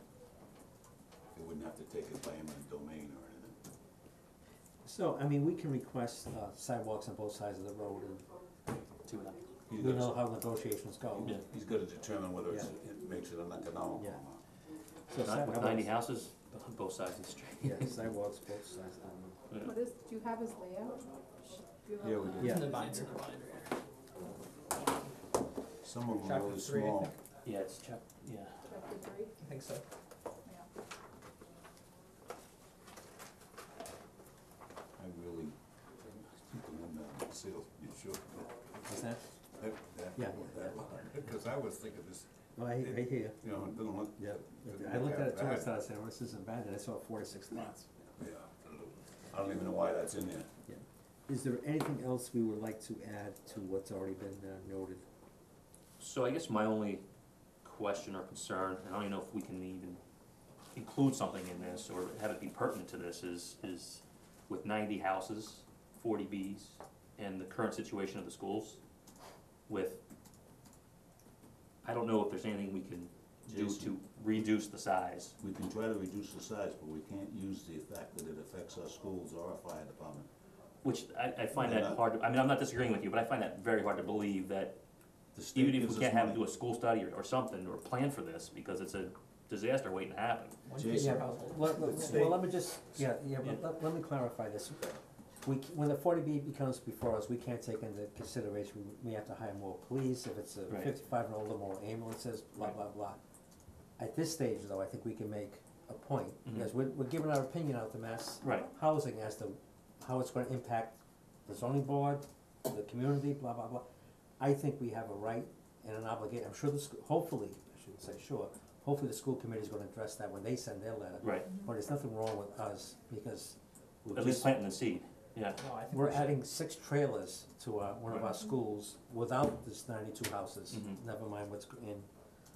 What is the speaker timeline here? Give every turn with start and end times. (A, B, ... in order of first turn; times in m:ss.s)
0:01.4-0:03.6 A
0:04.8-0:08.3 B
0:09.1-0:09.4 C
0:09.7-0:10.2 A
0:09.8-0:11.4 B
0:11.1-0:14.4 A
0:15.1-0:15.9 B
0:15.2-0:18.0 C
0:17.6-0:19.4 B
0:19.6-0:22.6 D
0:22.0-0:22.8 A
0:22.4-0:22.8 B
0:22.4-0:23.7 E
0:25.8-0:27.1 A
0:26.1-0:27.2 E
0:27.4-0:28.6 C
0:28.6-0:29.4 D
0:29.4-0:29.8 E
0:35.0-0:38.6 A
0:38.8-0:39.3 B
0:39.6-0:45.7 A
0:40.2-0:40.8 B
0:42.6-0:43.4 B
0:44.2-0:47.9 B
0:48.2-0:50.5 A
0:50.7-0:55.0 B
0:56.0-0:57.0 C
0:57.6-1:00.0 C
1:00.7-1:08.8 C
1:09.7-1:10.0 C
1:11.8-1:15.4 C
1:13.5-1:14.0 A
1:15.4-1:20.3 A
1:20.8-1:24.8 C
1:21.6-1:22.0 A
1:25.4-1:26.4 A
1:25.5-1:30.6 C
1:30.6-1:31.9 E
1:30.8-1:32.4 A
1:30.9-1:43.2 B
1:32.1-1:32.4 C
1:44.0-1:53.8 B
1:46.4-1:46.7 C
1:48.4-1:48.7 C
1:54.4-2:04.6 B
2:01.2-2:01.5 C
2:04.1-2:05.6 C
2:05.5-2:06.3 E
2:05.8-2:12.1 B
2:10.7-2:11.0 C